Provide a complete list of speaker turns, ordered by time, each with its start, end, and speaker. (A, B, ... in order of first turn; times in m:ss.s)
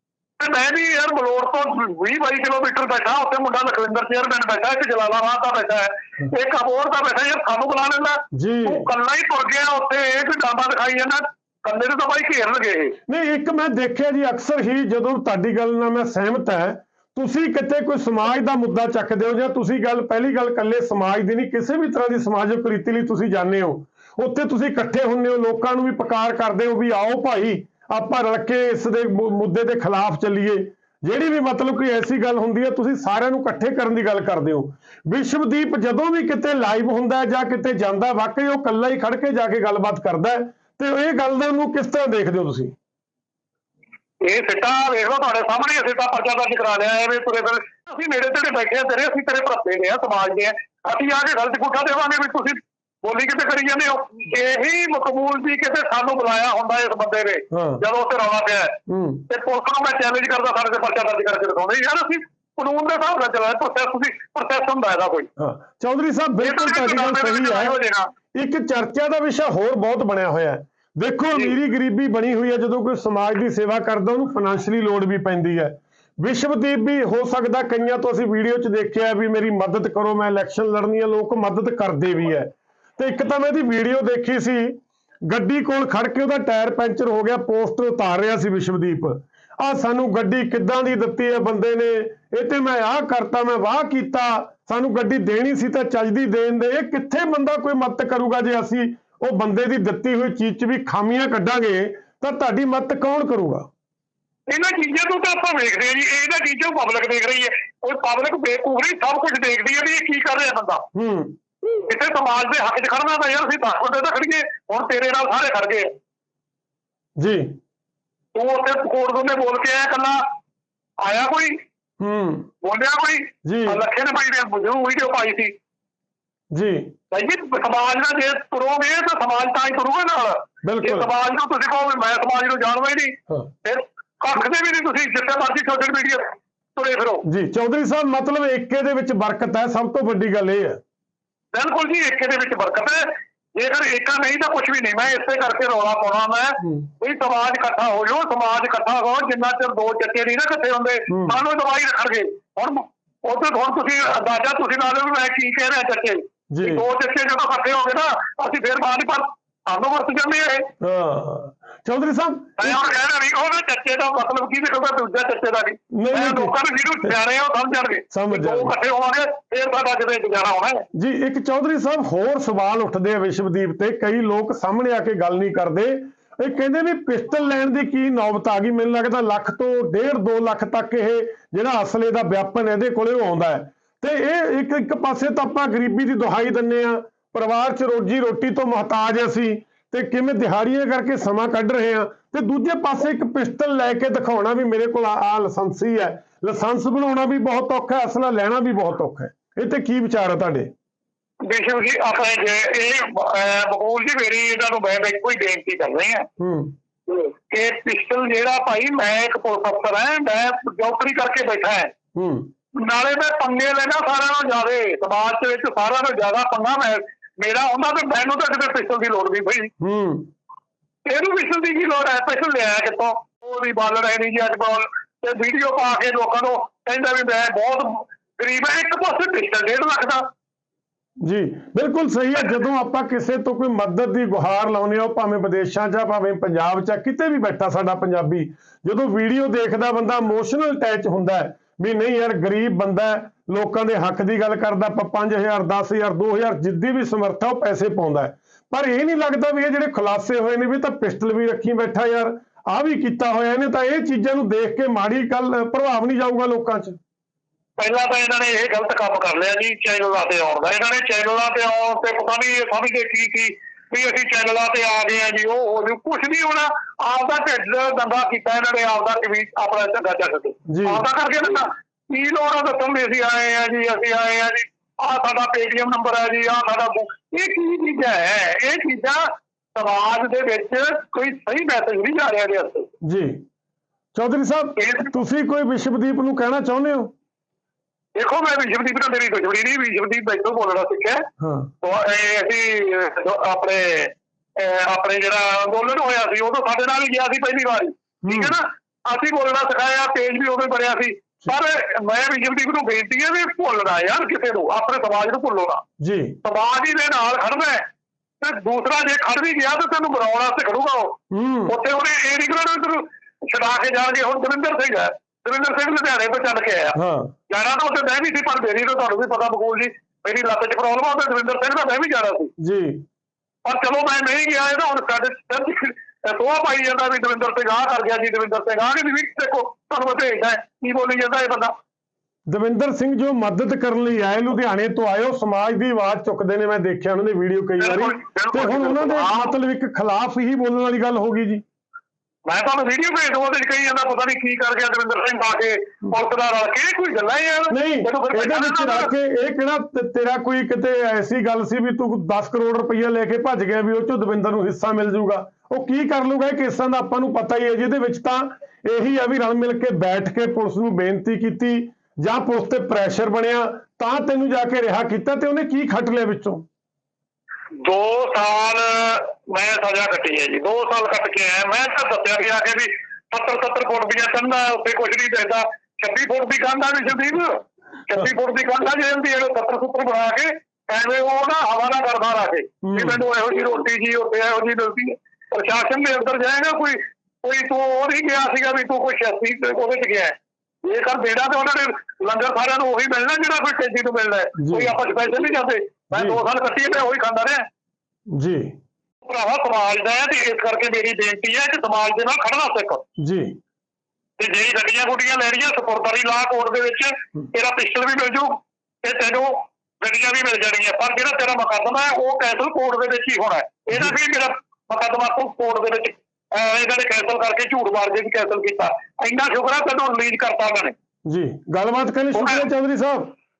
0:00.4-0:13.0 A
0:08.3-0:08.9 B
0:13.1-0:42.7 B
0:44.2-0:58.8 A
0:57.5-0:57.8 B
0:58.9-0:59.2 B
0:59.3-1:05.3 A
1:05.4-1:07.8 B
1:06.4-1:08.1 A
1:08.3-1:43.7 B
1:44.5-1:50.8 A
1:51.0-1:51.4 B
1:51.7-1:55.9 A
1:57.2-1:57.5 B
1:58.4-2:00.2 A
2:01.0-2:01.6 A
2:02.0-2:02.5 B
2:02.6-2:05.5 A
2:03.4-2:03.8 B
2:06.5-2:06.9 B
2:07.1-2:17.2 A
2:10.6-2:11.1 B
2:17.2-2:20.8 B
2:21.5-2:40.7 A
2:26.6-2:26.9 B
2:31.1-2:31.4 B
2:36.5-2:36.8 B
2:40.8-2:42.8 B
2:42.6-2:50.8 A
2:45.9-2:46.6 B
2:48.1-2:48.7 B
2:50.9-3:20.7 B
3:21.4-3:26.2 A
3:26.4-3:26.7 B
3:27.1-3:31.9 A
3:32.2-3:32.5 B
3:32.8-3:39.7 A
3:39.8-3:40.3 B
3:41.0-3:50.3 A
3:51.2-4:17.0 B
4:17.8-4:39.2 A
4:30.7-4:31.0 B
4:39.8-4:42.9 A
4:43.0-4:43.4 B
4:44.1-4:47.1 B
4:44.8-4:45.1 A
4:48.2-4:51.2 A
4:51.4-4:51.7 B
4:51.8-5:05.8 A
4:58.2-4:58.6 B
5:06.0-5:06.4 B
5:06.4-5:07.8 A
5:08.4-5:11.2 A
5:11.3-5:11.8 B
5:11.7-5:17.0 A
5:17.0-5:17.3 B
5:17.5-5:22.5 A
5:22.6-5:23.0 B
5:23.6-5:31.8 A
5:32.5-5:41.6 B
5:37.8-5:39.5 A
5:42.5-5:49.1 A
5:47.7-6:06.6 B
6:07.8-6:37.7 A
6:22.8-6:23.2 B
6:34.6-6:35.0 B
6:36.1-6:36.4 B
6:38.3-6:38.7 B
6:39.2-6:43.0 A
6:43.2-6:43.6 B
6:44.4-7:00.9 A
7:01.2-7:03.3 B
7:02.3-7:02.6 A